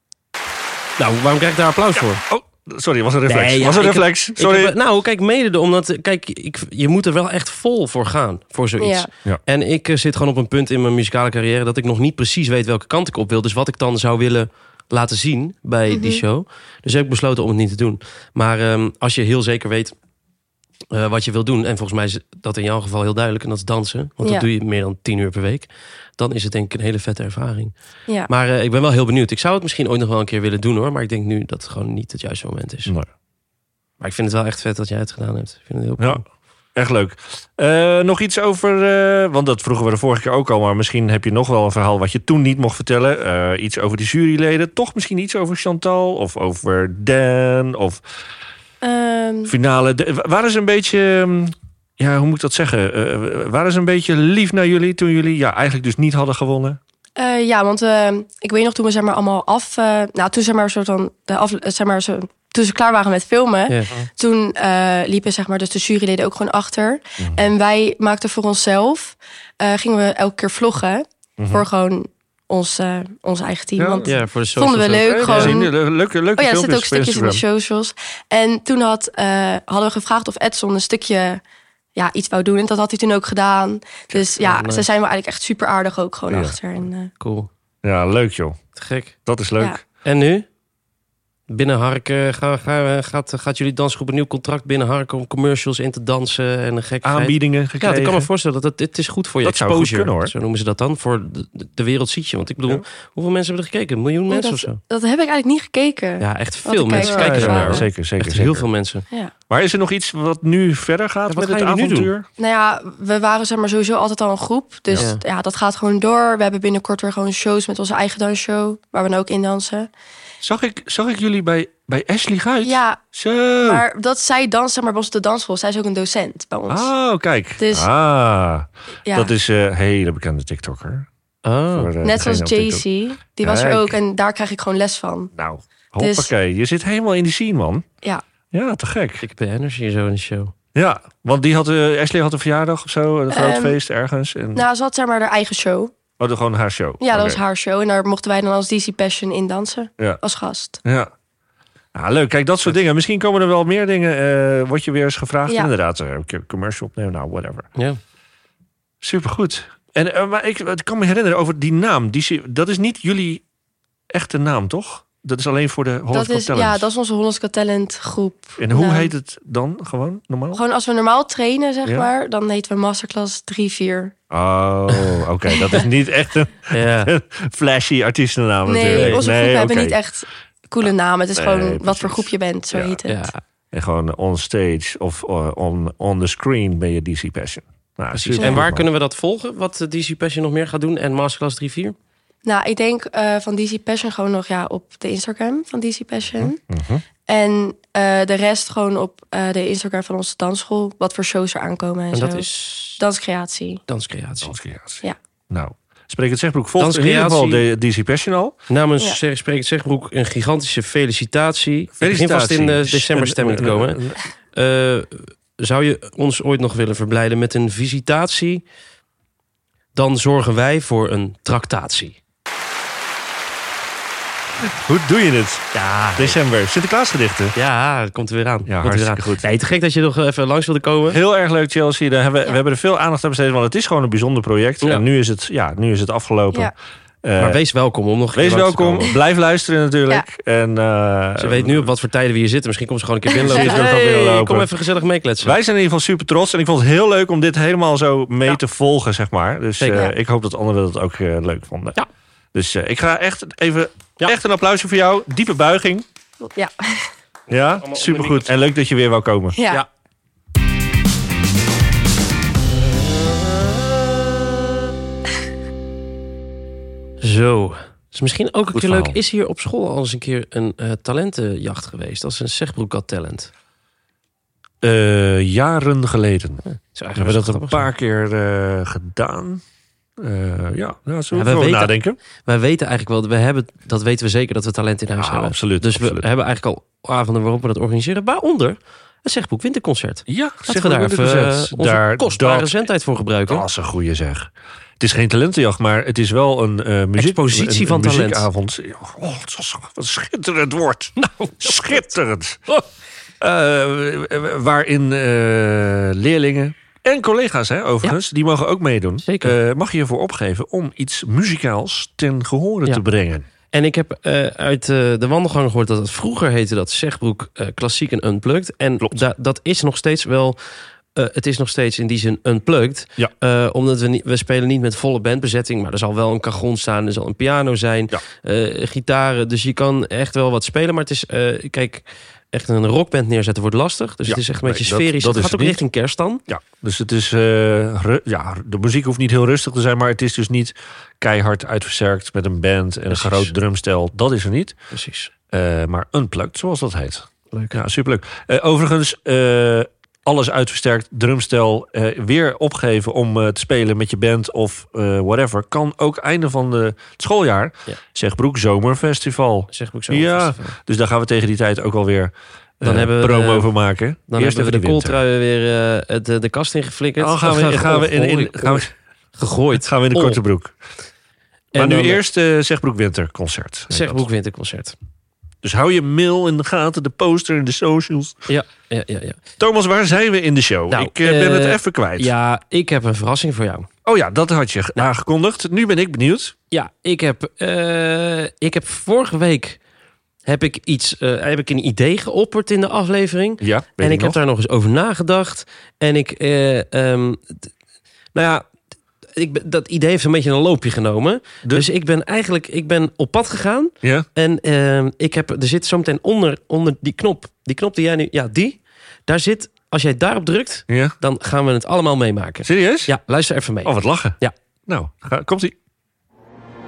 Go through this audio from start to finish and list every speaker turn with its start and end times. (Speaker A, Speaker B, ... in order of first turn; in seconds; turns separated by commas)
Speaker A: 1.0-2.2, Speaker B: 1.9-4.8, Speaker A: 3.3-19.9, Speaker C: 8.8-9.1, Speaker C: 15.9-16.2, Speaker A: 20.9-27.7, Speaker A: 28.3-32.9, Speaker A: 34.0-36.2, Speaker B: 36.7-48.0, Speaker C: 48.8-49.5, Speaker B: 49.5-56.8, Speaker C: 57.2-75.7, Speaker A: 63.7-63.9, Speaker B: 67.2-67.5, Speaker B: 71.4-71.7, Speaker B: 73.8-74.1, Speaker A: 74.0-75.6, Speaker B: 75.2-77.4, Speaker C: 76.4-81.4, Speaker C: 82.0-87.1, Speaker A: 84.4-84.8, Speaker B: 86.3-86.6, Speaker A: 87.2-87.5, Speaker B: 87.8-88.6, Speaker A: 88.7-89.1, Speaker B: 89.2-89.8, Speaker A: 90.0-90.5, Speaker A: 91.5-104.8, Speaker B: 97.0-98.3, Speaker B: 99.4-100.3, Speaker C: 104.3-107.9, Speaker A: 106.2-109.0, Speaker B: 106.9-108.7, Speaker B: 109.5-112.3, Speaker A: 111.3-112.1, Speaker C: 112.4-119.9, Speaker A: 115.0-115.2, Speaker B: 120.4-123.8, Speaker C: 122.6-123.0, Speaker C: 123.6-126.9, Speaker B: 126.7-131.1, Speaker C: 127.6-127.9, Speaker A: 131.4-131.9, Speaker B: 131.7-132.8, Speaker C: 132.0-135.3, Speaker B: 133.4-134.0, Speaker B: 135.3-137.8, Speaker C: 136.0-136.3, Speaker B: 138.5-139.2, Speaker A: 139.2-140.5, Speaker B: 140.7-144.7, Speaker C: 143.3-143.8, Speaker C: 144.5-145.9, Speaker B: 146.2-147.4, Speaker C: 147.0-150.8, Speaker B: 150.8-151.1, Speaker B: 151.9-157.7, Speaker B: 159.0-163.4, Speaker B: 164.1-166.9, Speaker C: 166.1-169.1, Speaker B: 168.6-170.6, Speaker C: 170.5-174.1, Speaker B: 174.3-179.9, Speaker A: 176.7-177.1, Speaker C: 178.7-183.3, Speaker A: 178.9-179.2, Speaker B: 181.3-183.0, Speaker A: 183.1-183.4, Speaker B: 183.7-188.8, Speaker A: 188.1-191.9, Speaker C: 192.4-196.6, Speaker B: 196.4-197.0, Speaker C: 197.3-203.8, Speaker A: 202.1-203.0, Speaker A: 203.9-204.5, Speaker B: 204.4-208.6, Speaker A: 206.8-207.6, Speaker A: 208.7-214.0, Speaker B: 212.0-214.2, Speaker A: 214.5-218.6, Speaker A: 219.9-222.2, Speaker B: 224.6-227.6, Speaker A: 225.7-226.4, Speaker A: 227.5-231.2, Speaker B: 228.7-229.4, Speaker B: 231.1-237.6, Speaker A: 237.4-239.1, Speaker B: 238.3-241.9, Speaker A: 241.4-245.6, Speaker B: 243.4-244.7, Speaker B: 245.4-252.0, Speaker A: 249.8-250.1, Speaker B: 252.5-256.1, Speaker C: 256.5-257.1, Speaker B: 257.5-259.6, Speaker A: 257.7-258.5, Speaker C: 259.5-259.8, Speaker A: 262.8-263.8, Speaker A: 267.2-273.5, Speaker B: 268.7-269.1, Speaker B: 274.8-276.6, Speaker A: 276.6-277.9, Speaker B: 277.1-279.6, Speaker B: 280.2-282.2, Speaker A: 281.3-293.6, Speaker B: 285.2-286.2, Speaker B: 290.3-292.7, Speaker B: 293.5-302.8, Speaker A: 297.2-298.5, Speaker B: 303.4-313.4, Speaker A: 309.2-309.5, Speaker A: 313.7-320.6, Speaker A: 321.1-336.4, Speaker B: 334.3-335.8, Speaker B: 336.5-344.8, Speaker A: 343.1-343.5, Speaker A: 344.9-345.3, Speaker B: 345.5-365.2, Speaker A: 347.5-347.8, Speaker A: 359.7-360.8, Speaker A: 362.8-363.7, Speaker A: 364.3-370.4, Speaker B: 367.2-368.9, Speaker B: 369.8-370.7, Speaker B: 371.7-374.2, Speaker A: 371.7-372.2, Speaker A: 373.9-374.9, Speaker B: 375.6-378.5, Speaker A: 378.5-379.4, Speaker B: 379.6-382.3, Speaker A: 380.9-383.9, Speaker B: 384.0-386.5, Speaker A: 386.7-389.8, Speaker A: 390.4-397.7, Speaker B: 393.6-394.4, Speaker A: 398.3-398.7, Speaker A: 399.3-414.5, Speaker B: 410.9-411.1, Speaker B: 412.6-413.2, Speaker B: 413.8-415.7